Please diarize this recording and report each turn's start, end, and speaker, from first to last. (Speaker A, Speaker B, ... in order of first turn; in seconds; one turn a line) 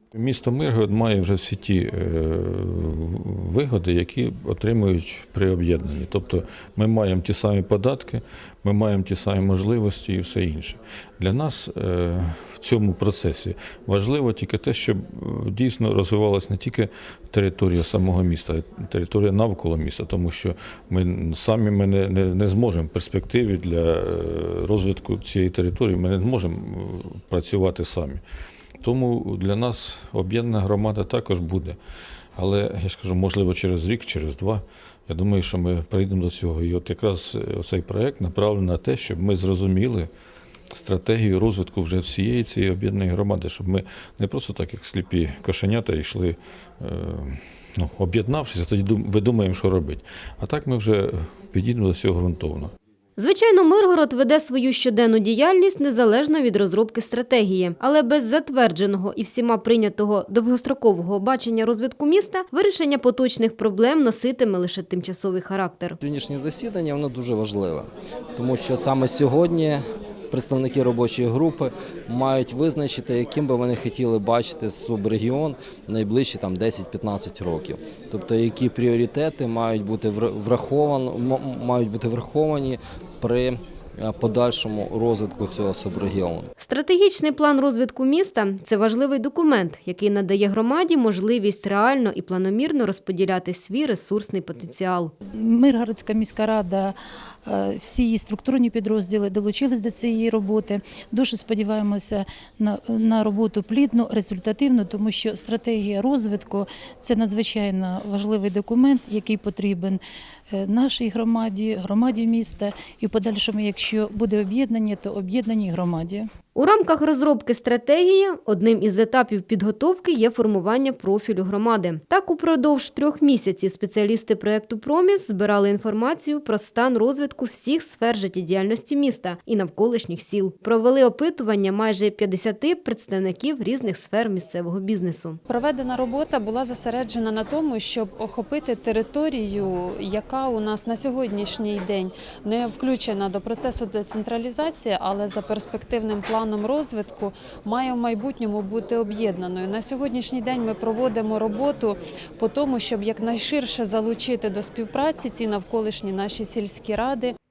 Speaker A: 0.1-28.2
Speaker A: 28.8-31.8
Speaker A: 32.4-40.1
Speaker A: 40.7-52.7
Speaker B: 53.2-66.0
Speaker C: 66.0-86.5
Speaker B: 86.6-95.1
Speaker D: 95.4-96.9
Speaker D: 97.5-110.0
Speaker D: 110.5-116.2
Speaker B: 116.5-135.4
Speaker E: 135.5-157.3